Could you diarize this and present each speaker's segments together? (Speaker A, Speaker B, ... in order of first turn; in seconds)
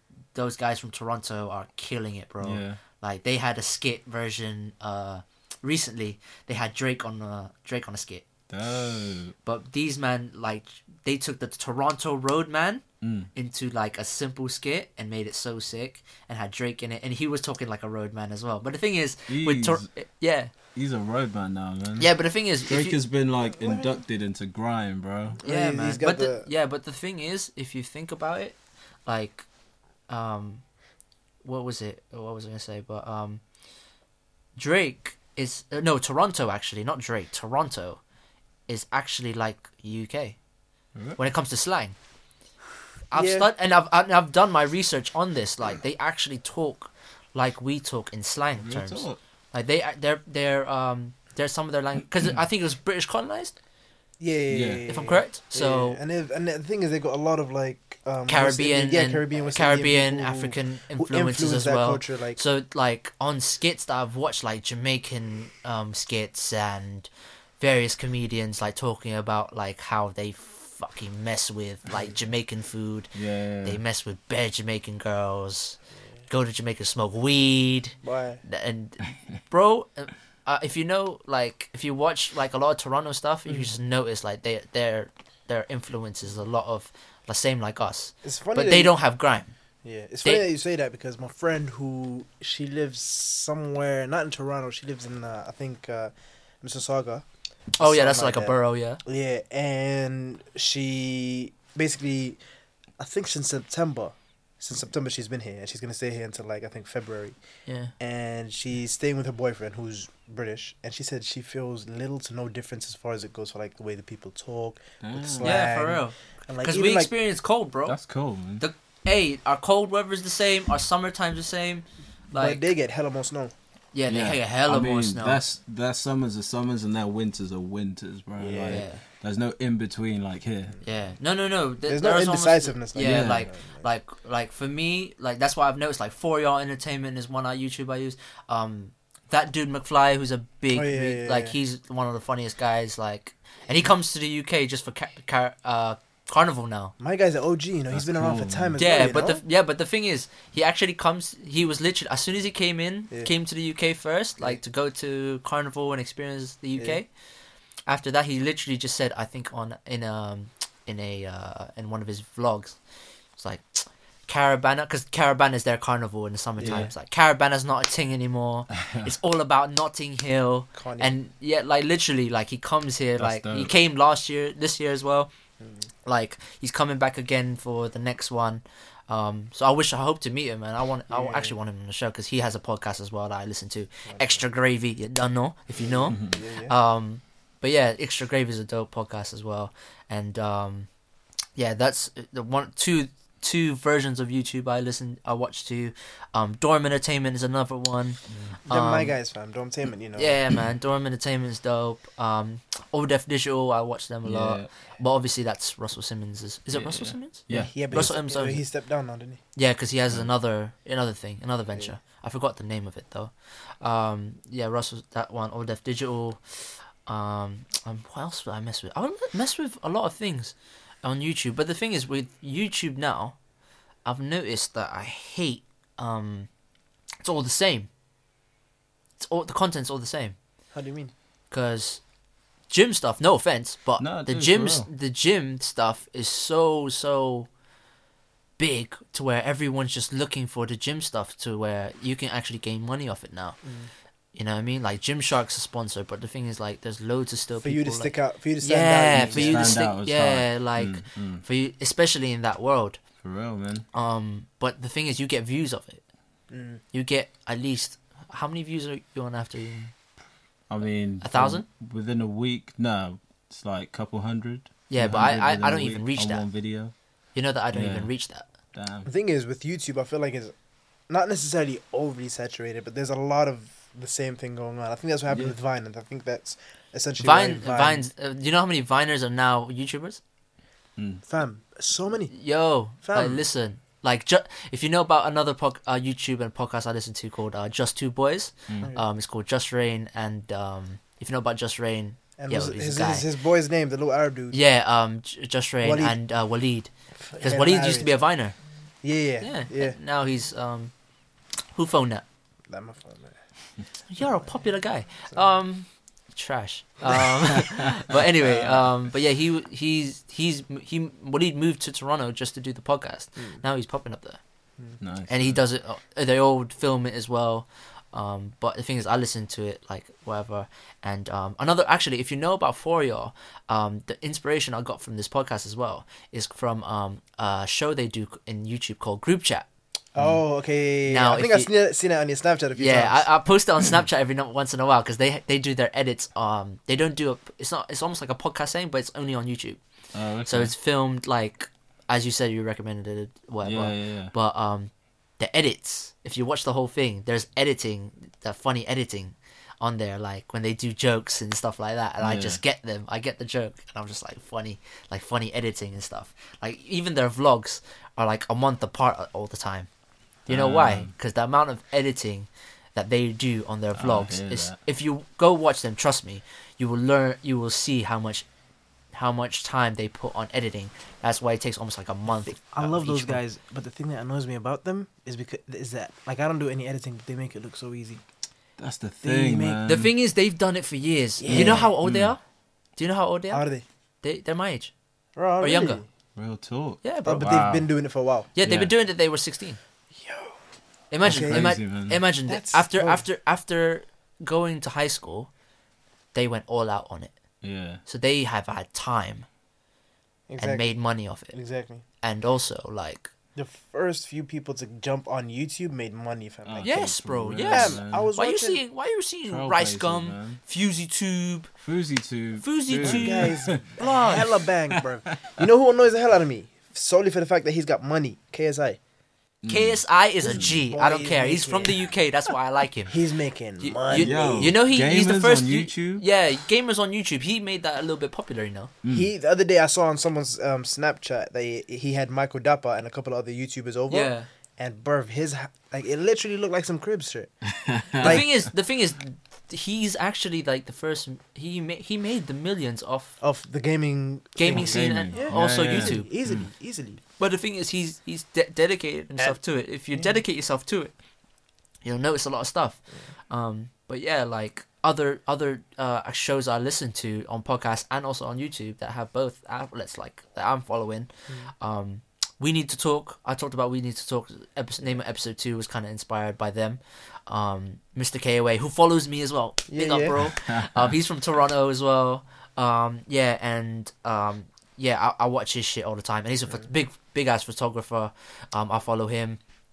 Speaker A: 0.3-8.2, 9.4-12.8, 13.3-20.5, 22.0-23.0, 25.4-29.4, 30.1-30.6, 31.4-33.4, 34.5-38.0, 38.7-40.4, 41.2-41.9, 43.1-53.5, 54.9-56.0, 58.3-73.1, 73.6-89.5, 97.8-99.0, 107.7-107.9, 115.4-118.0, 118.6-122.7, 123.9-125.4, 128.7-129.0, 130.8-146.9, 148.8-157.1, 157.9-162.8, 163.4-175.3, 176.1-190.9, 191.6-199.2, 200.2-208.6, 209.6-216.4, 217.1-223.3, 224.1-226.5, 227.2-227.9, 229.2-230.3, 231.5-232.0, 232.7-237.5, 238.6-243.6, 244.3-253.0, 253.9-256.0, 256.9-259.9, 261.2-261.6, 264.9-266.4, 267.3-268.5, 277.2-280.2, 282.3-293.3, 294.5-298.6, 299.4-300.9, 301.7-302.2, 304.1-314.4, 315.3-329.7, 331.1-331.7, 332.8-339.8, 340.5-359.9, 360.5-368.4, 369.1-373.4, 379.9-382.4, 383.0-383.7, 384.2-384.9, 385.6-386.0, 387.0-387.6, 388.6-389.8, 391.1-395.5, 396.3-397.4, 398.1-399.4, 400.6-401.6, 402.2-403.3, 406.8-411.7, 412.6-414.4, 419.7-423.1, 423.8-428.9, 434.1-434.5, 438.2-443.3, 444.6-446.3, 447.4-451.1, 452.0-479.6
Speaker B: 2.4-2.8, 8.5-9.3, 13.0-13.3, 19.3-19.9, 20.7-22.1, 22.7-25.4, 48.6-49.2, 54.5-54.8, 73.1-73.8, 115.0-115.6, 117.9-118.6, 124.1-130.8, 133.0-133.4, 147.9-148.8, 166.6-166.9, 168.8-169.1, 173.2-173.7, 186.1-186.4, 198.3-198.5, 204.2-204.7, 206.7-208.1, 234.0-234.9, 249.2-251.4, 253.2-253.8, 260.7-266.9, 267.7-268.1, 268.7-269.1, 281.0-281.2, 315.0-315.6, 340.1-340.7, 343.6-344.3, 352.2-352.6, 360.5-361.1, 363.9-364.8, 378.8-380.1, 381.5-382.3, 386.4-387.9, 388.6-388.9, 391.2-392.2, 397.6-398.0, 406.6-408.3, 409.5-410.6, 411.8-413.8, 419.6-420.8, 424.1-426.2, 429.0-429.3, 437.7-438.5, 444.7-446.7, 470.5-471.1
Speaker C: 23.5-24.0, 25.4-26.5, 43.1-43.5, 54.2-62.4, 78.0-78.4, 88.2-88.9, 89.8-97.2, 97.8-102.4, 103.0-107.3, 108.0-117.1, 122.3-123.5, 128.4-128.8, 131.9-133.9, 140.7-141.6, 147.0-149.4, 170.7-171.1, 175.6-175.8, 181.1-181.5, 184.1-184.4, 185.8-186.7, 198.7-200.4, 207.5-209.4, 230.7-231.1, 243.6-243.9, 247.6-249.8, 256.5-256.8, 269.0-270.5, 271.1-278.1, 281.2-282.3, 283.0-283.4, 292.4-294.6, 295.8-296.2, 297.2-298.2, 299.0-300.0, 302.7-303.4, 304.2-304.4, 330.1-333.3, 372.3-378.2, 379.2-379.8, 381.4-381.9, 383.5-383.8, 385.4-386.1, 387.2-388.5, 390.1-390.5, 391.2-391.7, 392.5-393.2, 400.5-400.9, 401.5-402.0, 403.6-407.0, 407.6-408.8, 413.0-419.0, 420.9-421.9, 423.1-424.7, 429.1-437.5, 438.1-438.5, 443.4-447.2, 469.9-470.4